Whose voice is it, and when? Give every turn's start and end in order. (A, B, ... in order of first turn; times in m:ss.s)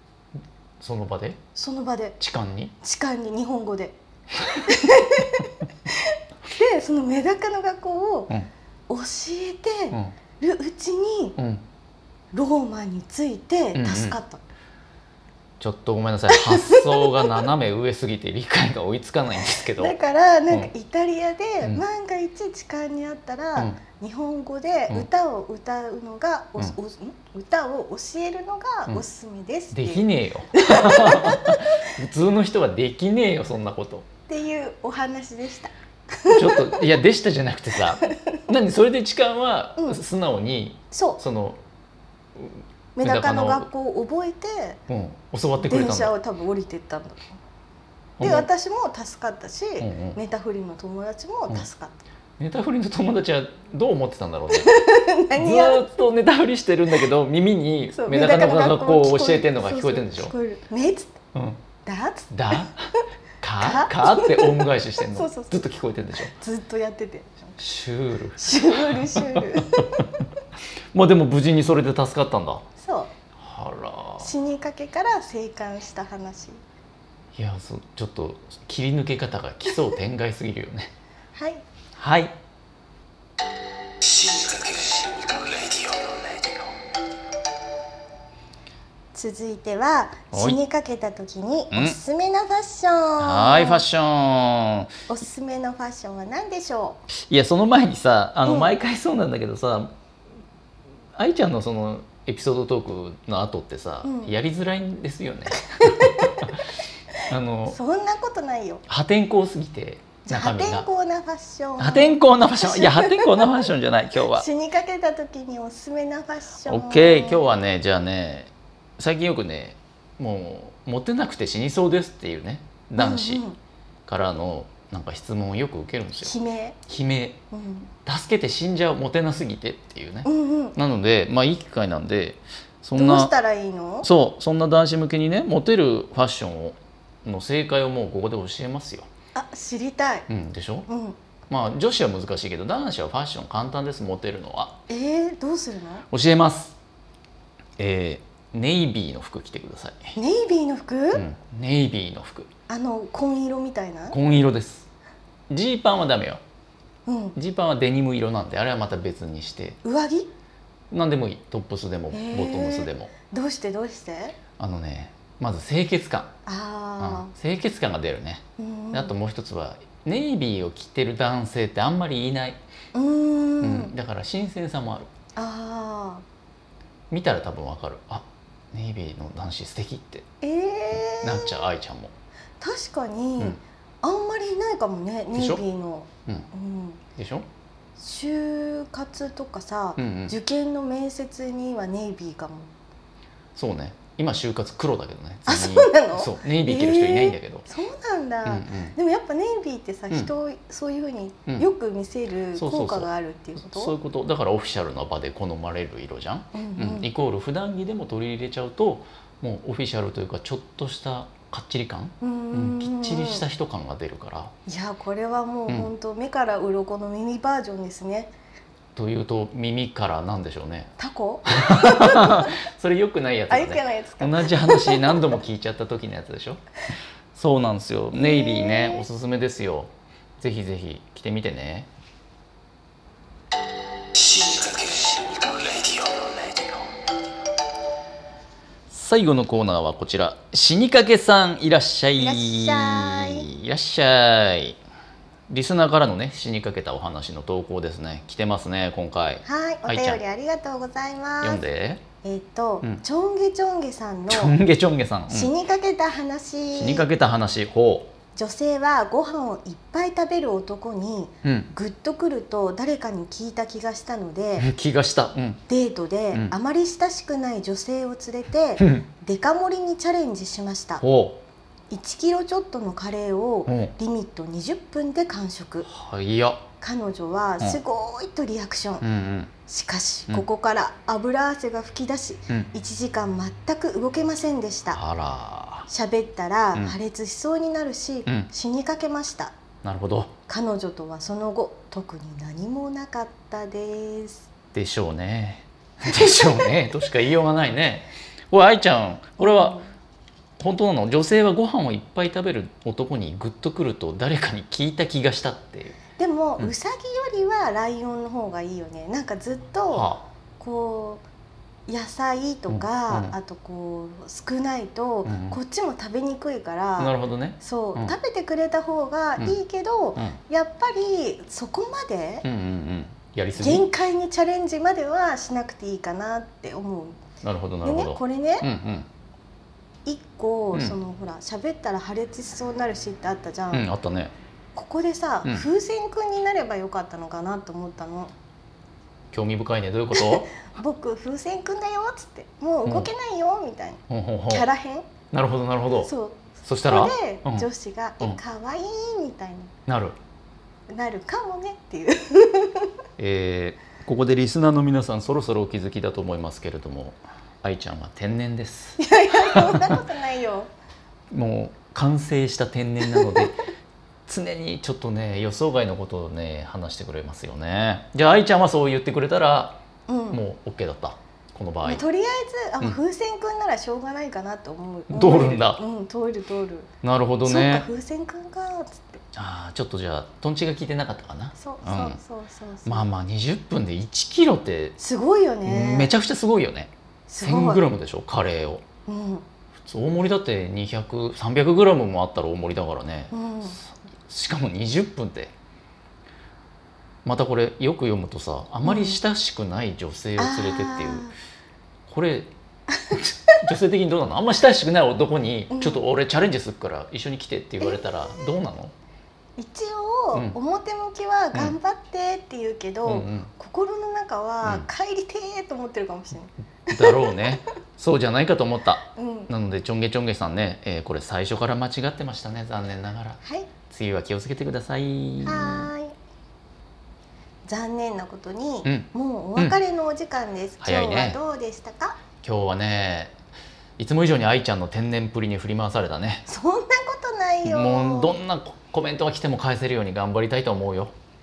0:00.8-0:01.4 A
0:01.5-0:02.2 B
0:02.2-0:02.7 A
0:02.8-0:08.3 B
0:08.9-0:11.4 B
0:11.4-0:11.6 A
0:12.3-0:14.4 B
0:13.7-0:14.2 A
0:15.6-0:20.0 A
0:16.3-0:17.4 B
0:19.7-0:31.8 B
0:29.7-0:34.0 A
0:34.3-0:37.0 B
0:36.3-0:41.6 A
0:37.8-0:38.4 B
0:40.9-0:41.2 B
0:42.4-0:43.7 A
0:43.0-0:44.8 B
0:44.9-0:46.1 A
0:45.6-0:47.3 B
0:48.2-0:48.5 A
0:48.2-0:51.9 B
0:49.8-0:50.2 A
0:52.4-0:54.7 A
0:54.5-0:56.0 B
0:55.3-1:00.3 A
0:57.9-1:01.2 B
1:01.3-1:01.6 A
1:01.8-1:02.7 B
1:02.3-1:02.8 A
1:03.4-1:06.3 A
1:03.6-1:05.6 B
1:06.2-1:07.6 B
1:07.6-1:10.1 A
1:08.4-1:10.2 B
1:10.9-1:12.6 A
1:12.8-1:13.1 B
1:13.4-1:14.3 A
1:14.2-1:16.6 B
1:17.3-1:20.9 A
1:21.3-1:21.6 B
1:22.0-1:22.3 A
1:24.0-1:26.5 C
1:29.1-1:33.8 B
1:30.3-1:30.6 A
1:31.7-1:32.0 A
1:33.2-1:34.9 A
1:35.1-1:37.0 B
1:37.1-1:39.9 A
1:38.4-1:38.7 B
1:41.2-1:46.6 A
1:44.0-1:44.3 B
1:45.7-1:46.4 B
1:47.3-1:47.8 A
1:47.7-1:48.8 B
1:48.9-1:50.8 A
1:50.2-1:53.6 B
1:51.8-1:54.4 A
1:54.3-1:57.4 B
1:56.6-2:03.4 A
2:03.0-2:03.6 B
2:04.1-2:06.3 A
2:06.2-2:06.8 B
2:06.9-2:07.4 A
2:07.5-2:07.9 B
2:08.0-2:13.3 A
2:10.2-2:10.8 B
2:13.0-2:14.1 B
2:14.0-2:19.1 A
2:19.3-2:20.3 B
2:20.3-2:20.9 A
2:20.9-2:21.2 B
2:21.5-2:24.7 A
2:24.9-2:26.0 B
2:26.1-2:26.8 A
2:27.8-2:30.0 A
2:30.2-2:31.2 B
2:31.1-2:32.5 A
2:32.7-2:34.2 B
2:34.1-2:34.9 A
2:35.5-2:36.4 A
2:37.0-2:37.4 B
2:37.4-2:39.8 A
2:39.8-2:40.3 B
2:40.9-2:43.1 A
2:42.1-2:44.4 B
2:44.6-2:46.3 A
2:46.4-2:47.3 B
2:47.0-2:52.6 A
2:48.6-2:49.1 B
2:52.9-2:53.9 B
2:53.6-2:55.1 A
2:55.4-2:56.2 B
2:57.1-3:00.2 A
3:00.4-3:01.6 B
3:01.2-3:02.1 A
3:02.6-3:07.0 B
3:05.3-3:05.6 A
3:07.2-3:07.4 A
3:08.0-3:12.7 B
3:10.0-3:10.3 A
3:13.6-3:17.6 A
3:15.4-3:23.9 B
3:18.4-3:18.9 A
3:22.5-3:34.5 A
3:26.5-3:27.1 B
3:32.2-3:33.4 B
3:34.6-3:38.3 B
3:39.0-3:40.9 A
3:41.0-3:42.5 B
3:41.5-3:46.6 A
3:43.5-3:45.3 B
3:47.3-3:51.9 A
3:48.1-3:49.1 B
3:54.2-3:56.7 C
3:58.9-4:04.8 A
4:02.2-4:03.5 B
4:05.5-4:10.2 A
4:09.4-4:11.6 B
4:11.4-4:12.0 A
4:12.2-4:14.5 B
4:14.3-4:15.5 A
4:15.3-4:17.0 B
4:16.7-4:18.1 A
4:18.3-4:24.7 B
4:21.4-4:21.7 A
4:24.6-4:25.6 A
4:25.7-4:31.0 B
4:28.8-4:29.0 A
4:31.0-4:31.4 A
4:31.9-4:35.9 B
4:33.7-4:33.9 A
4:35.9-4:36.6 A
4:36.8-4:39.0 B
4:39.0-4:39.5 A
4:39.7-4:45.0 B
4:44.9-4:45.9 A
4:45.9-4:49.5 B
4:49.8-4:50.3 A
4:50.5-4:54.5 B
4:54.7-4:59.8 A
4:56.1-4:56.8 B
4:59.4-4:59.9 B
5:00.6-5:06.0 A
5:06.2-5:11.2 B
5:09.9-5:10.2 A
5:11.9-5:22.4 B
5:12.7-5:13.4 A
5:15.2-5:15.6 A
5:17.0-5:18.1 A
5:22.4-5:23.8 A
5:23.6-5:27.2 B
5:27.4-5:29.1 A
5:27.8-5:28.7 B
5:30.0-5:33.9 B
5:33.7-5:34.3 A
5:34.7-5:38.3 B
5:39.3-5:40.5 A
5:40.1-5:45.1 B
5:42.8-5:43.1 A
5:44.1-5:44.7 A
5:45.3-5:47.7 A
5:46.0-5:49.7 B
5:49.9-5:50.2 A
5:50.9-5:52.9 B
5:53.2-6:00.0 A
5:59.0-6:00.7 B
6:01.3-6:03.6 A
6:03.1-6:03.5 B
6:04.3-6:12.0 A
6:10.1-6:10.4 B
6:11.8-6:16.9 B
6:15.1-6:15.8 A
6:17.0-6:17.8 A
6:17.4-6:19.2 B
6:19.3-6:22.2 A
6:21.6-6:23.1 B
6:22.8-6:25.0 A
6:25.0-6:26.1 B
6:25.6-6:28.8 A
6:27.3-6:27.8 B
6:29.1-6:29.4 B
6:29.8-6:33.3 A
6:33.3-6:33.8 B
6:34.2-6:35.5 A
6:37.2-6:41.3 A
6:38.8-6:39.2 B
6:40.4-6:41.3 B
6:42.1-6:42.5 A
6:43.1-6:48.9 A
6:45.7-6:46.0 B
6:49.6-6:57.5 B
6:53.0-6:53.5 A
6:56.9-7:05.9 A
6:59.1-6:59.5 B
7:03.4-7:03.7 B
7:05.4-7:06.1 B
7:07.6-7:12.2 B
7:08.8-7:09.8 A
7:10.8-7:11.4 A
7:12.4-7:13.3 A
7:14.0-7:16.4 A
7:16.5-7:18.4 B
7:17.6-7:21.1 A